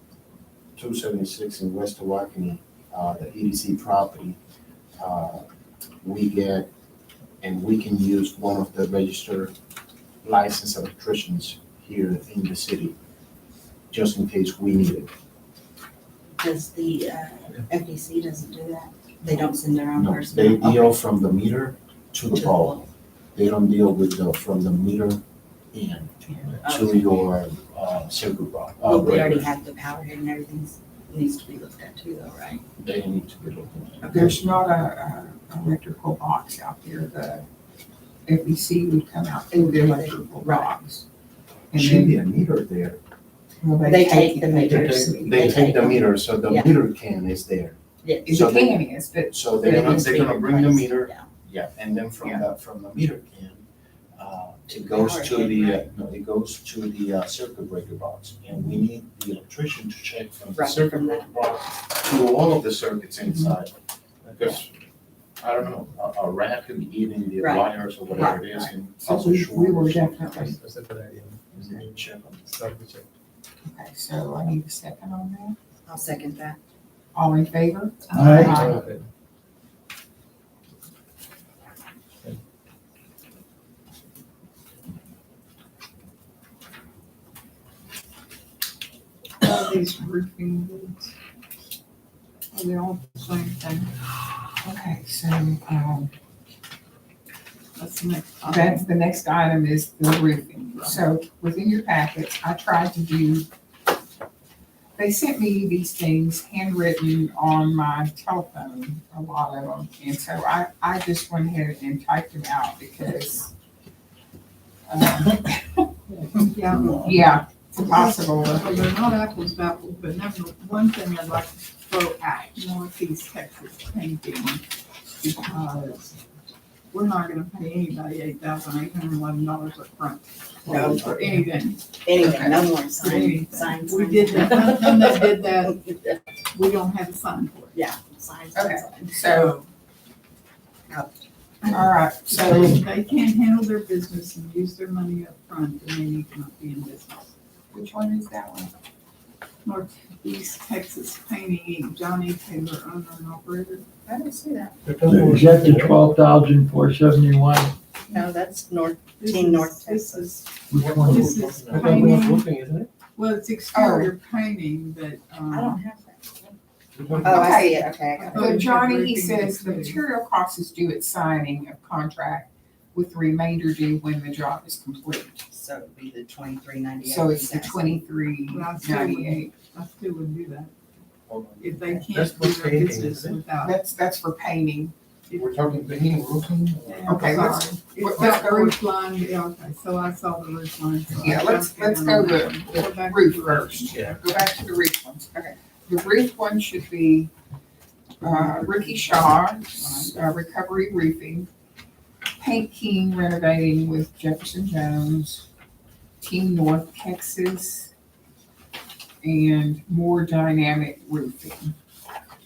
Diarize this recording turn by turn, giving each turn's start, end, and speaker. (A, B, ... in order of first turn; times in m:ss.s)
0:00.8-0:04.4 A
0:05.0-0:05.4 A
0:06.0-0:06.7 A
0:07.4-0:09.5 A
0:10.2-0:12.9 A
0:13.9-0:15.1 A
0:16.4-0:21.0 B
0:20.0-0:22.8 A
0:22.3-0:22.9 B
0:23.4-0:25.2 A
0:25.7-0:29.5 A
0:26.6-0:27.0 B
0:28.8-0:32.6 B
0:32.8-0:34.4 A
0:34.0-0:37.4 C
0:38.2-0:41.0 C
0:39.5-0:40.8 B
0:41.7-0:42.2 C
0:41.7-0:43.0 A
0:43.6-0:45.3 C
0:43.8-0:46.7 B
0:44.6-0:45.1 D
0:44.8-0:47.8 A
0:48.0-0:48.5 B
0:48.2-0:50.1 C
0:48.3-0:48.8 A
0:49.3-0:53.6 A
0:49.6-0:51.3 B
0:54.2-1:03.7 A
0:54.7-0:55.9 B
1:00.6-1:01.5 B
1:04.2-1:04.7 A
1:05.4-1:10.5 A
1:07.4-1:08.3 B
1:08.2-1:10.6 C
1:10.4-1:13.0 D
1:11.5-1:12.4 A
1:13.6-1:15.6 C
1:15.9-1:16.6 B
1:17.1-1:18.8 C
1:18.1-1:18.4 E
1:18.1-1:18.7 F
1:18.5-1:19.0 D
1:29.4-1:30.1 C
1:29.4-1:31.1 E
1:32.5-1:33.9 E
1:34.6-1:36.1 C
1:37.8-1:38.9 E
1:38.4-1:43.5 C
1:40.7-1:41.0 E
1:45.0-1:53.5 C
1:54.9-1:55.9 C
1:56.3-2:04.6 E
1:56.9-1:58.7 C
2:05.2-2:06.2 E
2:06.9-2:15.8 E
2:10.7-2:11.2 B
2:12.0-2:16.2 B
2:16.5-2:17.8 E
2:17.7-2:19.3 B
2:18.5-2:19.5 C
2:19.3-2:19.7 E
2:20.9-2:21.2 B
2:21.6-2:27.3 E
2:21.7-2:22.8 C
2:27.7-2:28.7 C
2:29.6-2:33.9 E
2:34.1-2:34.8 B
2:34.8-2:36.0 D
2:35.1-2:37.8 F
2:38.0-2:40.4 B
2:39.2-2:40.5 E
2:40.7-2:42.2 F
2:40.8-2:42.9 D
2:41.1-2:42.5 E
2:43.2-2:45.8 E
2:43.7-2:44.1 C
2:45.5-2:46.6 B
2:47.0-2:47.4 D
2:47.1-2:50.0 E
2:47.2-2:48.5 B
2:47.3-2:55.4 C
2:55.5-2:58.0 B
2:57.0-2:59.5 C
2:58.5-3:00.7 E
3:01.3-3:03.4 D
3:01.6-3:03.8 E
3:03.6-3:04.9 C
3:05.3-3:05.5 E
3:05.4-3:07.2 A
3:06.8-3:07.2 D
3:06.9-3:14.1 E
3:07.1-3:08.8 C
3:11.1-3:17.3 C
3:18.2-3:21.5 C
3:18.2-3:20.3 E
3:22.4-3:25.4 C
3:26.2-3:27.9 C
3:29.2-3:31.7 C